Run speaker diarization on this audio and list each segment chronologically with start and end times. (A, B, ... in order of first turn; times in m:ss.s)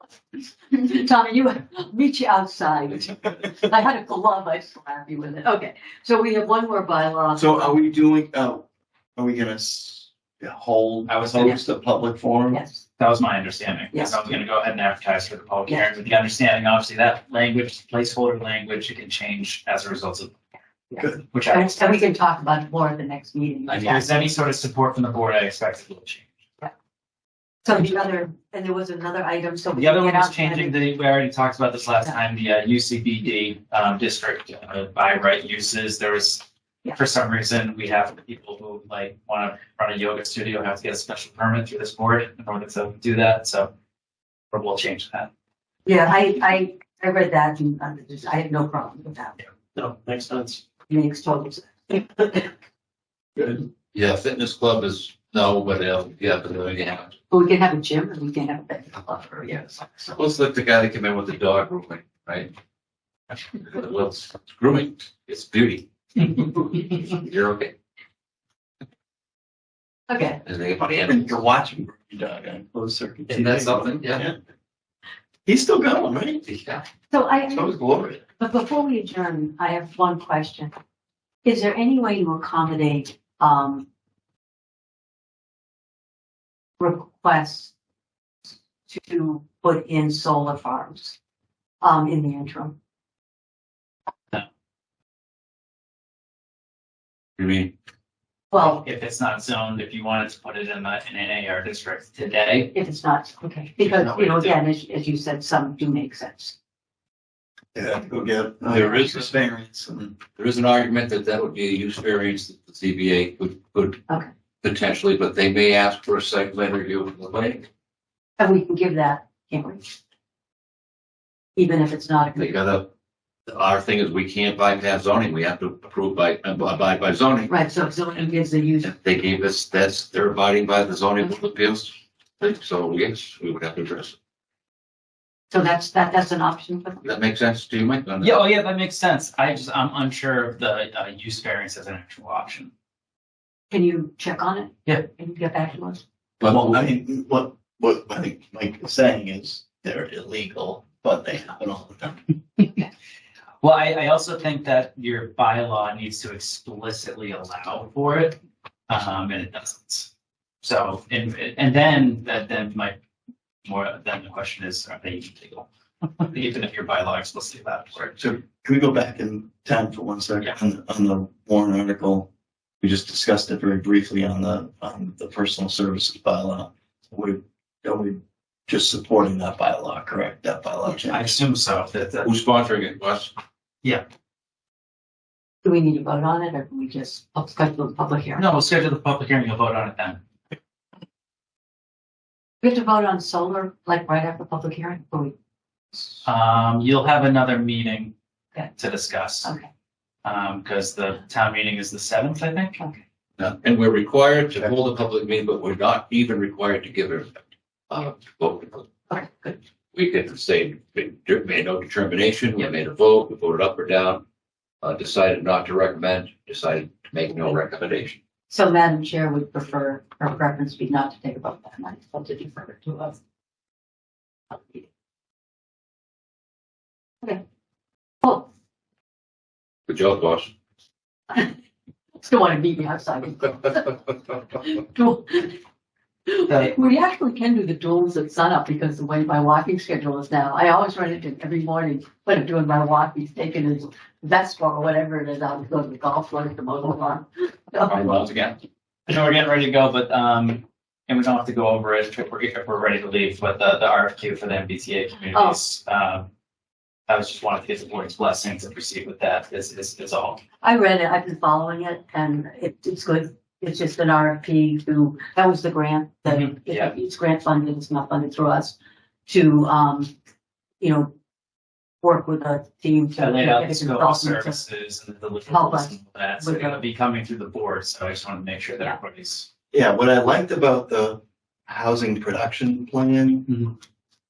0:00.7-0:07.7 A
0:07.4-0:12.6 B
0:11.1-0:11.6 C
0:12.5-0:12.8 A
0:13.0-0:20.3 C
0:13.9-0:14.2 A
0:20.9-0:24.1 A
0:21.3-0:21.8 C
0:23.7-0:26.3 C
0:27.6-0:30.8 A
0:29.7-0:43.7 C
0:44.5-0:45.3 C
0:45.8-0:49.4 A
0:49.8-0:50.6 B
0:50.9-0:52.5 A
0:53.4-0:53.6 B
0:53.9-0:57.1 D
0:57.3-1:00.2 A
1:00.1-1:02.5 D
1:03.7-1:07.7 D
1:10.1-1:10.4 A
1:10.4-1:11.4 D
1:10.8-1:14.4 B
1:13.3-1:14.3 D
1:15.5-1:16.5 B
1:16.5-1:16.8 D
1:17.1-1:17.8 A
1:17.6-1:18.2 D
1:18.4-1:20.7 A
1:21.4-1:23.9 A
1:26.8-1:27.7 A
1:28.9-1:31.2 A
1:31.8-1:32.8 A
1:37.4-1:37.7 D
1:38.5-1:38.8 A
1:38.5-1:42.7 C
1:42.7-1:46.6 A
1:43.8-1:44.6 C
1:47.8-1:50.2 B
1:48.7-1:49.3 D
1:50.4-1:54.0 D
1:54.6-1:57.7 D
1:58.4-1:59.9 A
2:01.6-2:02.6 A
2:02.4-2:02.9 D
2:03.5-2:07.5 D
2:07.5-2:08.9 A
2:08.8-2:14.2 D
2:15.5-2:17.0 A
2:17.0-2:18.4 D
2:18.2-2:22.7 C
2:23.7-2:26.0 A
2:26.4-2:26.8 D
2:26.4-2:32.2 B
2:32.6-2:32.9 A
2:33.6-2:38.4 C
2:38.9-2:40.1 C
2:40.6-2:43.0 C
2:43.6-2:45.7 C
2:46.2-2:48.2 C
2:48.2-3:01.4 B
3:00.9-3:02.3 C
3:02.2-3:03.3 D
3:05.6-3:08.5 A
3:08.4-3:10.2 C
3:12.6-3:15.4 A
3:15.9-3:16.2 A
3:16.2-3:18.1 C
3:18.7-3:19.5 C
3:20.2-3:22.8 C
3:23.4-3:27.3 D
3:27.9-3:28.9 D
3:29.1-3:29.6 A
3:29.9-3:34.2 D
3:34.8-3:38.2 D
3:38.5-3:43.2 A
3:44.5-3:44.8 A
3:48.2-3:48.5 A
3:49.9-3:50.5 D
3:52.2-3:55.6 A
3:56.3-4:08.4 A
4:07.9-4:16.3 C
4:15.3-4:15.6 A
4:17.1-4:20.4 C
4:20.6-4:28.8 A
4:26.3-4:26.9 C
4:29.3-4:30.1 A
4:30.8-4:31.1 A
4:32.0-4:34.6 A
4:33.2-4:39.5 C
4:35.5-4:36.8 A
4:39.7-4:43.5 B
4:43.5-4:43.7 C